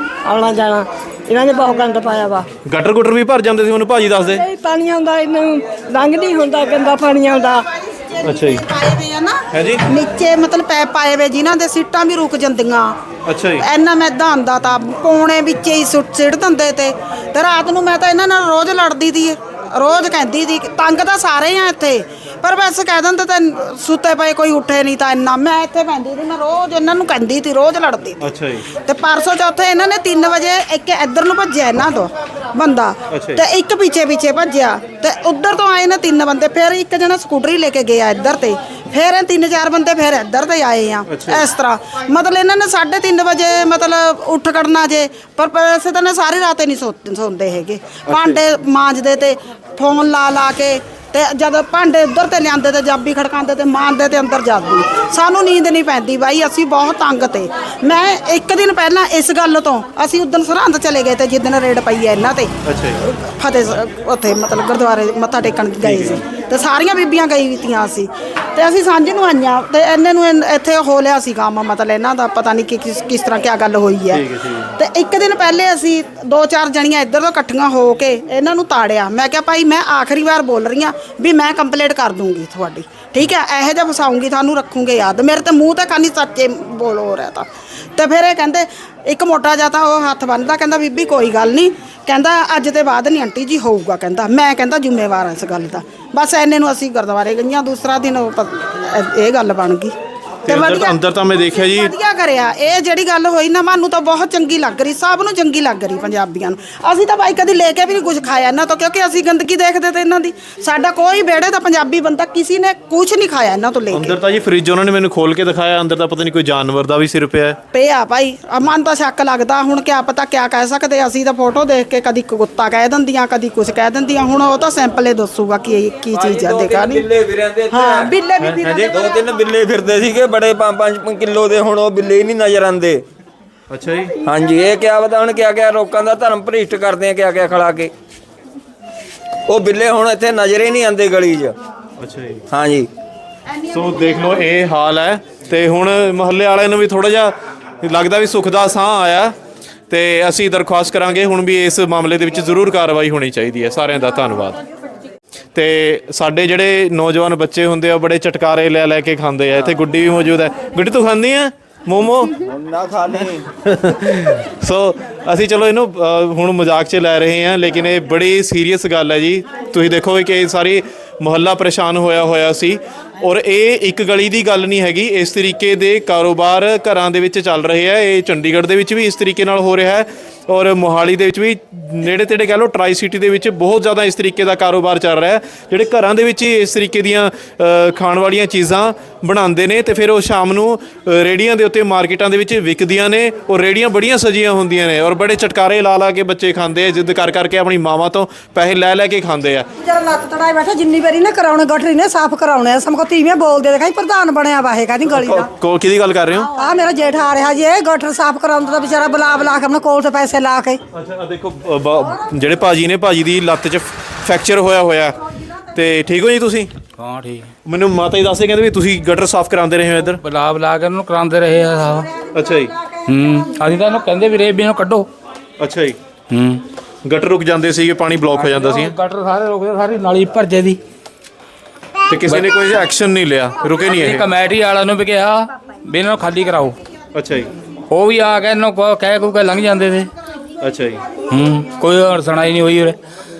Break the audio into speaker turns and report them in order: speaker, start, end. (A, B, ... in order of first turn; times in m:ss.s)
0:00.2-0:02.4 A
0:02.6-0:04.4 B
0:04.2-0:07.6 A
0:08.1-0:13.0 C
0:08.2-0:08.6 B
0:09.5-0:09.8 B
0:13.2-0:13.6 B
0:13.6-1:39.9 C
0:28.2-0:28.6 B
0:33.1-0:33.4 B
0:41.1-0:41.5 B
0:48.1-0:48.4 B
1:02.6-1:03.0 B
1:05.8-1:06.2 B
1:14.1-1:14.7 B
1:40.4-1:41.9 B
1:40.4-1:54.1 C
1:53.9-1:57.6 B
1:57.7-2:07.0 C
2:06.1-2:08.1 D
2:07.7-2:09.2 C
2:08.4-2:08.9 B
2:08.9-2:13.0 D
2:13.7-2:14.1 B
2:14.2-2:17.9 D
2:19.5-2:21.6 D
2:22.0-2:22.4 B
2:22.5-2:22.9 D
2:23.5-2:24.4 C
2:23.7-2:29.3 B
2:29.9-2:34.6 B
2:35.5-2:42.3 B
2:42.4-2:43.5 D
2:43.6-3:19.7 B
3:19.8-3:25.5 E
3:25.2-3:26.5 B
3:26.5-3:30.8 E
3:30.9-3:35.2 B
3:35.7-3:36.7 B
3:37.0-3:37.5 F
3:37.6-3:40.2 B
3:40.2-3:42.1 F
3:42.3-3:42.7 B
3:43.0-3:45.1 F
3:45.6-3:46.0 B
3:46.3-3:46.6 F
3:47.0-3:48.9 B
3:48.3-3:50.8 F
3:52.1-3:54.2 B
3:53.9-3:56.7 F
3:57.1-3:57.5 B
3:57.9-4:00.1 F
4:00.6-4:01.0 B
4:01.3-4:03.0 F